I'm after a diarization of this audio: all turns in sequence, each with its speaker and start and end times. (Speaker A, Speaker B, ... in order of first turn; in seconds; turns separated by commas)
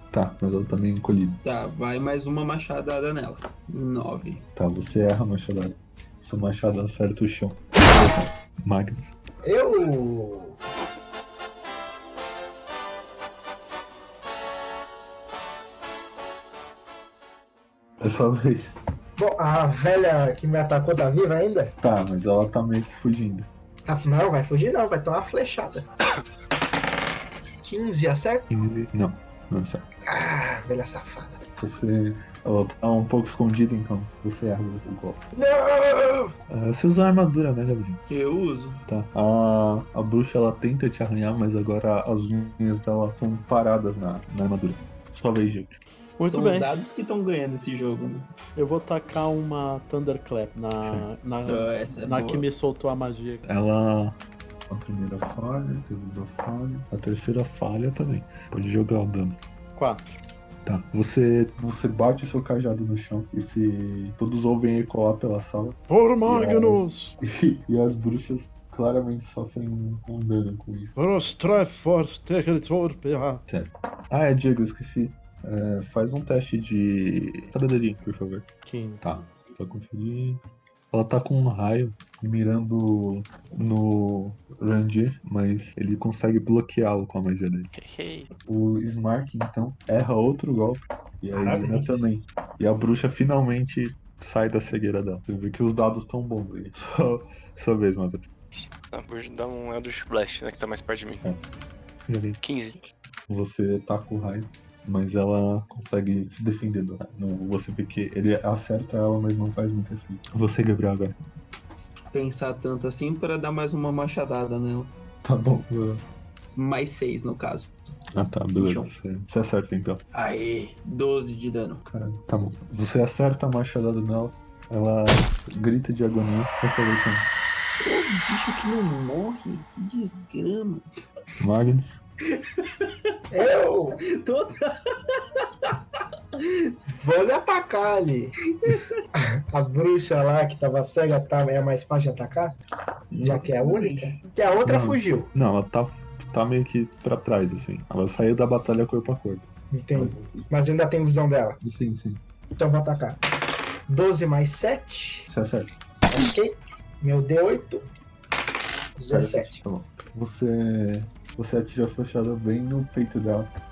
Speaker A: 0.1-1.4, Speaker B: 1.4-4.4, Speaker A: 4.6-9.1, Speaker C: 9.4-10.6, Speaker A: 18.0-18.8, Speaker C: 19.2-21.7, Speaker A: 21.8-23.5, Speaker C: 23.9-25.9, Speaker C: 27.6-28.5, Speaker A: 28.5-29.9, Speaker C: 30.1-31.4, Speaker A: 31.6-35.2, Speaker C: 35.3-36.3, Speaker A: 36.5-38.0, Speaker B: 38.1-38.8, Speaker A: 38.9-45.8, Speaker D: 46.2-46.7, Speaker B: 46.2-48.3, Speaker D: 48.5-53.4, Speaker A: 50.8-51.1, Speaker B: 51.4-52.5, Speaker A: 53.5-54.2, Speaker A: 54.7-59.4, Speaker D: 59.8-60.2, Speaker A: 60.6-71.0, Speaker D: 65.9-67.2, Speaker D: 71.0-73.4, Speaker A: 73.5-78.5, Speaker D: 78.7-79.2, Speaker A: 79.0-80.4, Speaker A: 80.9-87.7, Speaker E: 87.7-88.3, Speaker A: 88.5-98.3, Speaker C: 91.3-92.1, Speaker E: 98.5-101.2, Speaker A: 102.1-102.4, Speaker E: 102.4-102.8, Speaker A: 103.3-111.2, Speaker B: 112.1-114.9, Speaker A: 115.2-116.0, Speaker B: 116.6-117.7, Speaker A: 118.2-120.0, Speaker B: 118.6-119.0, Speaker B: 120.1-121.8, Speaker A: 121.9-127.3, Speaker B: 127.8-130.8, Speaker A: 131.4-131.9, Speaker B: 132.3-132.9, Speaker C: 133.3-134.0, Speaker B: 134.0-136.7, Speaker C: 137.0-138.3, Speaker B: 138.6-138.9, Speaker C: 139.2-142.6, Speaker A: 143.1-150.5, Speaker C: 143.2-145.3, Speaker C: 149.7-151.6, Speaker A: 151.6-152.2, Speaker C: 152.6-153.2, Speaker C: 153.9-155.3, Speaker A: 155.3-155.7, Speaker C: 156.1-157.9, Speaker C: 159.0-159.6, Speaker A: 159.1-163.5